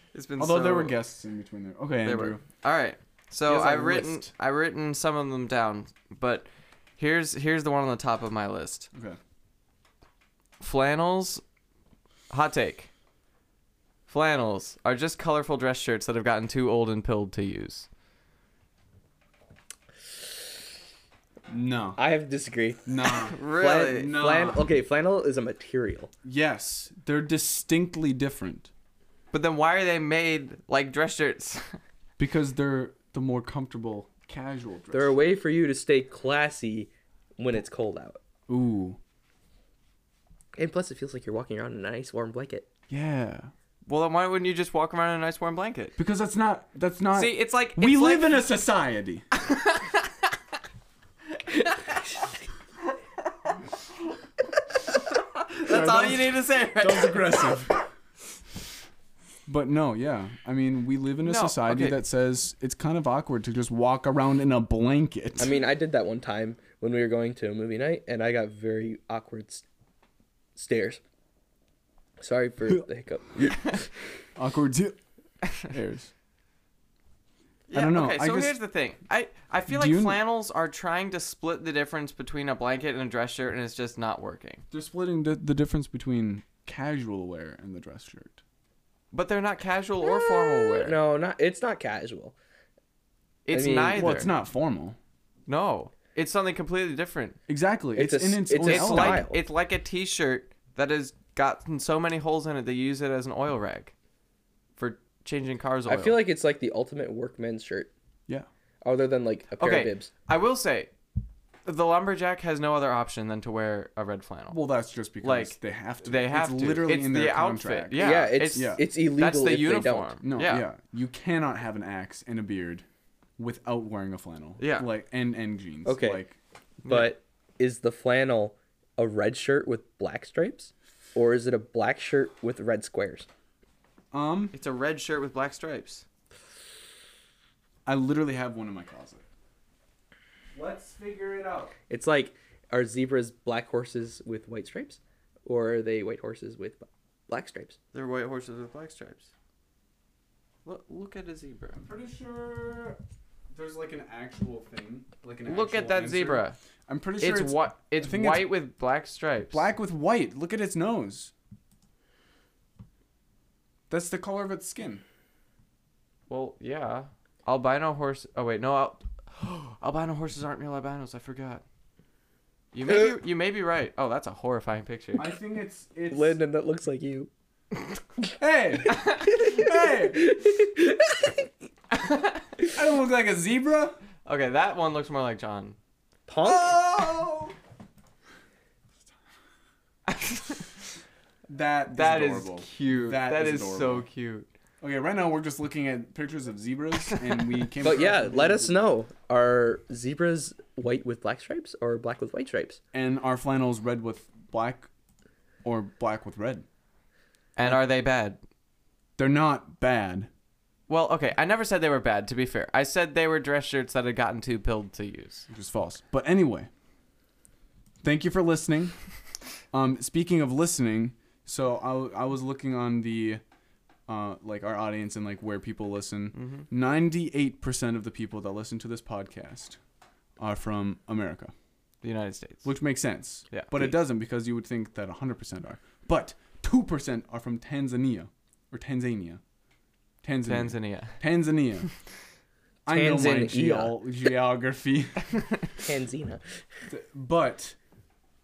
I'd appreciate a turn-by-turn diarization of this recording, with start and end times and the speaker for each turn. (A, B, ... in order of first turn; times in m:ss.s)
0:00.1-0:01.0 A
0:00.4-0:02.4 B
0:02.0-0:08.9 A
0:03.5-0:04.3 B
0:08.9-0:09.2 B
0:10.6-0:11.4 A
0:12.3-0:12.9 A
0:14.1-0:17.9 A
0:21.5-0:22.0 B
0:22.0-0:26.1 C
0:22.8-0:24.7 B
0:23.1-0:24.2 A
0:26.2-0:28.7 B
0:29.3-0:31.8 A
0:32.2-0:35.2 B
0:34.9-0:38.2 C
0:38.5-0:39.0 B
0:40.6-0:42.7 C
0:42.9-0:43.5 B
0:43.9-0:46.0 A
0:46.0-0:49.3 B
0:47.1-0:48.6 A
0:49.4-0:49.8 A
0:51.5-0:52.1 A
0:55.1-0:57.6 A
0:55.7-0:57.9 B
0:59.5-1:05.6 B
1:01.2-1:02.0 A
1:05.4-1:09.7 C
1:10.6-1:11.0 C
1:12.2-1:13.9 C
1:14.4-1:15.0 B
1:15.5-1:16.1 B
1:17.7-1:24.6 A
1:17.7-1:18.6 B
1:19.7-1:20.2 B
1:24.7-1:28.4 B
1:29.1-1:31.0 A
1:30.0-1:32.4 C
1:33.5-1:34.3 A
1:33.5-1:34.0 C
1:33.9-1:35.0 B
1:35.5-1:37.4 A
1:37.5-1:39.3 B
1:38.0-1:39.4 C
1:38.6-1:43.9 A
1:44.8-1:46.2 A
1:45.9-1:47.9 C
1:48.8-1:50.1 C
1:49.6-1:50.9 A
1:51.6-1:54.6 A
1:54.5-1:58.8 B
1:55.2-2:00.6 A
1:58.0-2:00.1 C
2:00.2-2:02.8 B
2:03.4-2:06.4 B
2:04.6-2:04.9 A
2:05.8-2:06.2 C
2:06.8-2:07.1 A
2:06.8-2:13.3 C
2:14.1-2:14.6 B
2:14.5-2:16.0 A
2:17.9-2:19.2 B
2:20.5-2:21.7 B
2:21.9-2:27.8 C
2:27.9-2:29.3 A
2:30.6-2:31.8 A
2:31.8-2:33.0 B
2:33.5-2:38.5 B
2:35.5-2:36.6 A
2:37.2-2:39.6 A
2:39.5-2:41.3 B
2:43.9-2:45.0 B
2:46.3-2:51.6 A
2:52.7-2:55.4 A
2:55.2-2:56.4 B
2:56.1-2:57.3 C
2:58.4-3:00.2 B
2:59.2-3:01.5 C
3:01.9-3:02.4 A
3:02.7-3:04.0 B
3:04.3-3:05.8 A
3:06.3-3:06.8 C
3:06.4-3:07.5 B
3:10.1-3:10.7 A
3:11.5-3:14.1 B
3:11.9-3:14.5 A
3:14.8-3:18.8 B
3:17.8-3:22.8 C
3:22.9-3:24.9 B
3:25.6-3:26.7 B
3:27.6-3:28.4 A
3:29.2-3:30.3 B
3:30.9-3:35.5 A
3:35.5-3:36.7 B
3:38.0-3:39.0 B
3:39.7-3:43.4 B
3:44.1-3:49.8 B
3:46.4-3:46.7 A
3:50.4-3:51.5 B
3:52.0-3:52.7 A
3:52.6-3:59.4 B
4:00.2-4:01.9 B
4:00.4-4:01.2 A
4:02.8-4:05.4 B
4:02.9-4:04.0 C
4:05.8-4:06.6 C
4:06.9-4:07.8 B